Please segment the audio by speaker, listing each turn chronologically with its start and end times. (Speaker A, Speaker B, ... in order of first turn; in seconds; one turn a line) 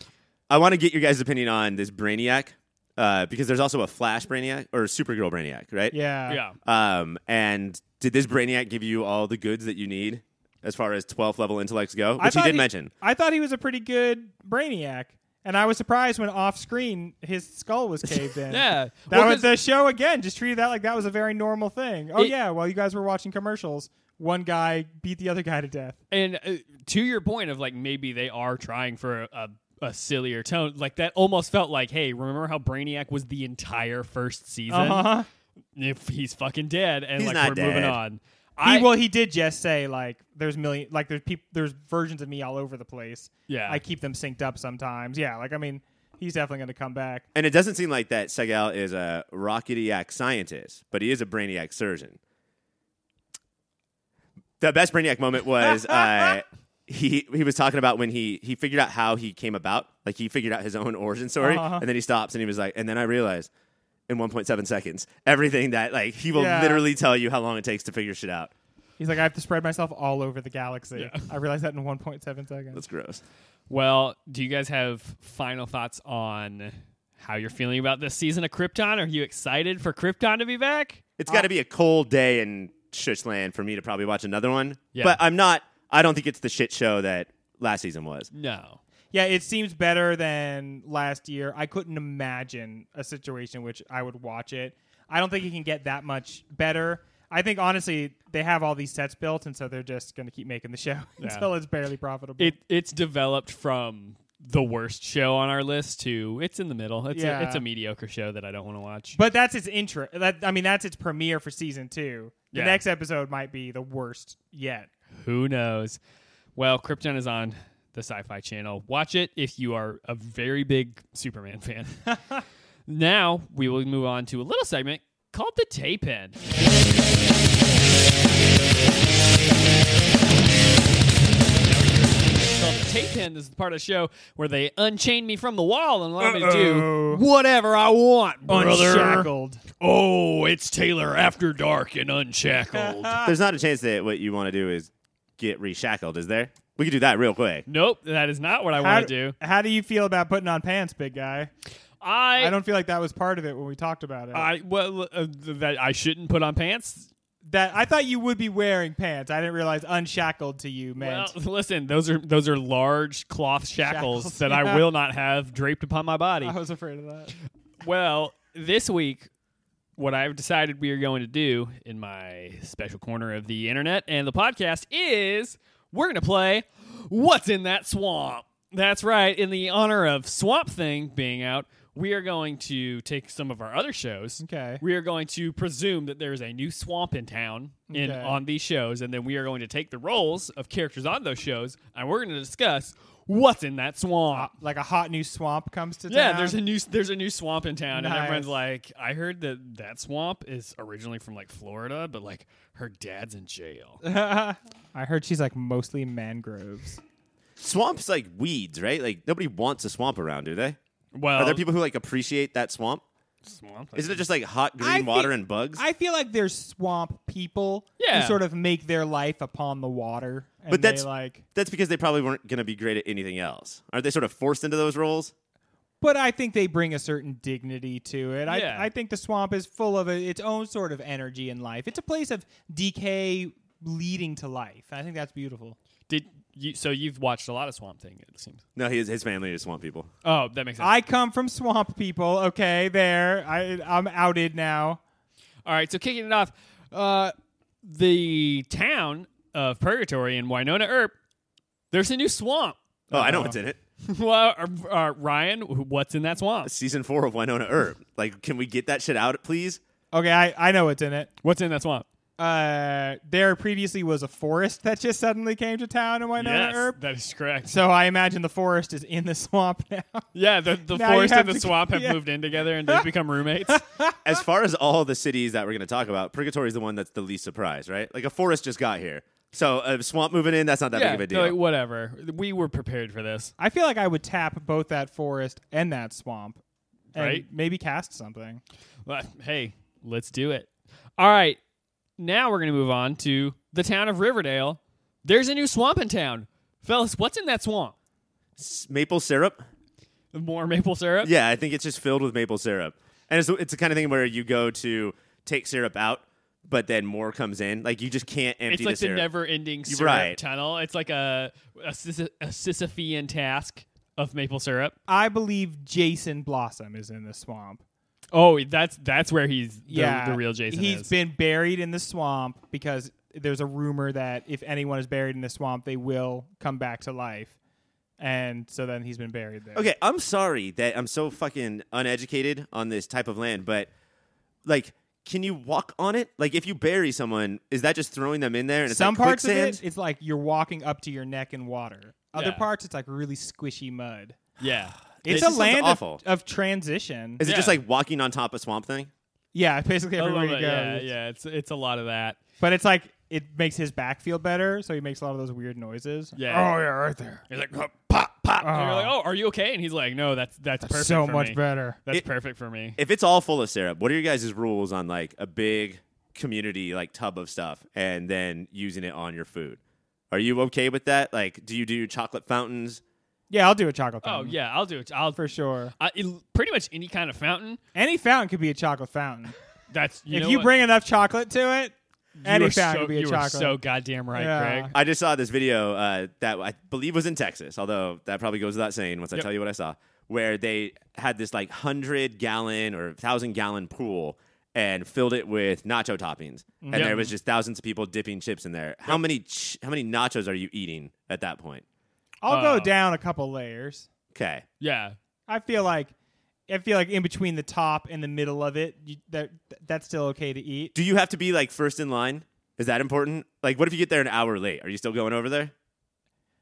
Speaker A: 0.5-6.0
Speaker B: 5.9-6.4
Speaker C: 6.3-6.6
Speaker A: 6.6-12.9
Speaker B: 12.2-26.0
Speaker C: 18.5-19.5
Speaker C: 26.1-35.1
Speaker B: 34.7-35.3
Speaker C: 35.8-38.9
Speaker A: 37.2-38.0
Speaker B: 38.6-47.3
Speaker C: 43.5-43.8
Speaker A: 47.3-52.2
Speaker A: 54.6-63.5
Speaker B: 61.4-61.9
Speaker A: 64.1-68.5
Speaker B: 66.3-66.9
Speaker B: 69.0-72.8
Speaker C: 71.0-71.3
Speaker A: 72.7-73.2
Speaker C: 73.7-81.0
Speaker A: 81.2-88.3
Speaker C: 84.9-85.2
Speaker C: 88.3-88.8
Speaker B: 89.1-102.6
Speaker C: 101.2-101.5
Speaker C: 102.4-109.2
Speaker B: 107.1-107.6
Speaker B: 109.2-114.9
Speaker C: 112.5-112.8
Speaker C: 115.2-116.0
Speaker C: 116.6-122.1
Speaker C: 122.9-126.4
Speaker C: 131.6-139.3
Speaker B: 136.2-137.2
Speaker B: 138.5-139.6
Speaker C: 139.8-143.2
Speaker B: 142.7-143.3
Speaker A: 143.2-147.7
Speaker C: 147.7-149.4
Speaker B: 148.8-151.5
Speaker C: 152.0-152.6
Speaker B: 152.4-154.5
Speaker C: 154.3-157.1
Speaker B: 157.4-161.3
Speaker C: 161.0-166.6
Speaker B: 163.8-164.8
Speaker B: 166.4-167.3
Speaker C: 167.8-169.3
Speaker C: 170.0-194.5
Speaker B: 184.4-184.8
Speaker B: 187.9-188.4
Speaker B: 194.3-196.6
Speaker C: 196.1-204.0
Speaker B: 197.9-198.5
Speaker B: 204.0-207.0
Speaker A: 207.6-210.8
Speaker C: 211.1-211.7
Speaker A: 211.3-213.0
Speaker C: 213.4-214.2
Speaker A: 213.9-215.8
Speaker B: 214.8-221.4
Speaker C: 218.0-218.4
Speaker A: 220.7-225.3
Speaker B: 226.0-235.8
Speaker C: 228.5-228.9
Speaker C: 236.1-238.6
Speaker A: 238.8-240.1
Speaker C: 240.2-240.9
Speaker B: 240.8-245.0
Speaker C: 245.7-251.2
Speaker C: 251.9-253.5
Speaker B: 253.1-253.6
Speaker A: 253.1-253.8
Speaker C: 254.0-256.7
Speaker A: 256.6-259.8
Speaker B: 260.1-261.3
Speaker C: 261.4-262.1
Speaker B: 262.4-267.0
Speaker C: 266.4-267.7
Speaker B: 267.7-270.3
Speaker C: 270.3-273.8
Speaker B: 270.9-272.2
Speaker B: 273.7-274.2
Speaker A: 274.2-281.6
Speaker C: 280.9-283.5
Speaker B: 283.6-286.6
Speaker C: 287.1-287.4
Speaker B: 287.1-288.6
Speaker C: 289.1-291.6
Speaker C: 292.2-297.9
Speaker A: 298.6-299.6
Speaker C: 300.3-301.3
Speaker A: 301.2-309.3
Speaker C: 308.7-315.0
Speaker A: 309.9-310.4
Speaker B: 315.1-317.8
Speaker C: 318.3-321.1
Speaker B: 319.9-327.6
Speaker B: 328.2-329.9
Speaker A: 329.8-333.9
Speaker A: 334.6-339.8
Speaker B: 338.9-344.4
Speaker C: 342.4-342.7
Speaker C: 344.6-345.0
Speaker A: 345.2-346.2
Speaker B: 345.2-347.4
Speaker A: 347.4-349.1
Speaker C: 347.4-347.8
Speaker B: 349.5-351.1
Speaker C: 350.2-352.4
Speaker B: 352.6-357.4
Speaker C: 356.4-356.8
Speaker C: 357.5-363.0
Speaker B: 358.6-359.1
Speaker B: 360.9-362.0
Speaker A: 363.0-369.8
Speaker A: 370.3-373.0
Speaker B: 373.5-374.6
Speaker C: 374.2-375.4
Speaker B: 375.4-375.9
Speaker C: 376.0-377.8
Speaker B: 377.9-379.6
Speaker C: 379.9-380.7
Speaker B: 380.3-383.8
Speaker C: 382.4-384.9
Speaker B: 384.3-384.9
Speaker A: 384.9-401.8
Speaker B: 396.8-397.3
Speaker C: 396.9-397.2
Speaker B: 402.4-404.1
Speaker C: 402.5-402.9
Speaker A: 404.3-404.6
Speaker C: 404.8-405.2
Speaker B: 405.5-406.1
Speaker B: 406.7-410.9
Speaker A: 410.9-415.7